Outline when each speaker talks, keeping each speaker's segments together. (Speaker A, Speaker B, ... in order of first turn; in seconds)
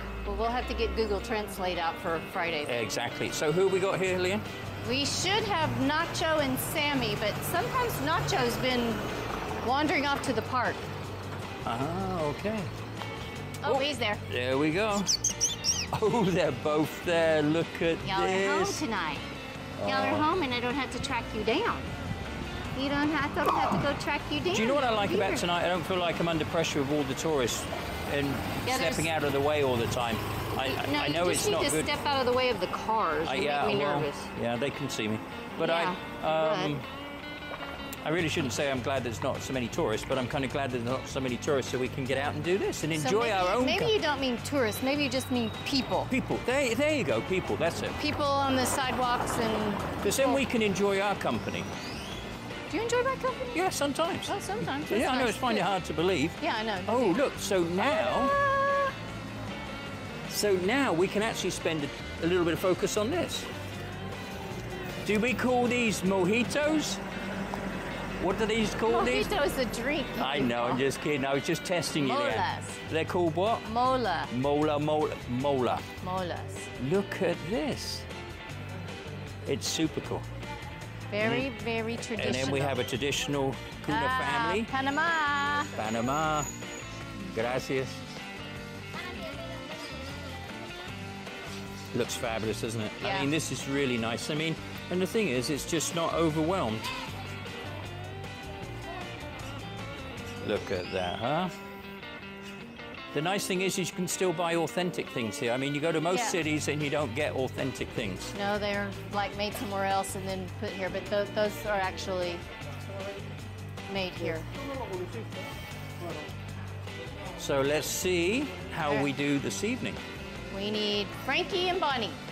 Speaker A: 0.2-2.8, 4.8-9.1, 9.6-10.8, 13.6-14.2, 18.0-19.3, 19.8-21.9, 22.8-25.4, 28.6-29.1, 30.6-34.3, 35.6-36.7, 43.0-46.1, 48.0-50.4, 52.7-53.6, 54.3-55.7, 56.4-57.2, 57.8-58.9, 68.9-70.8, 72.0-72.8, 73.6-74.3, 76.0-76.7, 81.1-82.8, 83.9-85.7, 93.0-93.3, 106.1-106.4, 108.3-112.4, 113.9-114.5, 120.5-122.2
Speaker B: 2.6-4.4, 11.6-12.7, 13.6-15.2, 15.9-18.8, 19.8-20.2, 24.5-31.9, 33.2-36.9, 38.0-43.9, 46.1-48.0, 50.0-51.7, 53.5-58.4, 60.3-63.5, 65.0-67.0, 68.2-69.3, 70.2-73.7, 74.3-75.8, 76.8-78.1, 79.5-80.2, 81.2-81.5, 82.1-84.7, 85.7-86.5, 87.3-88.0, 91.9-96.9, 100.4-101.5, 103.1-108.3, 117.4-120.0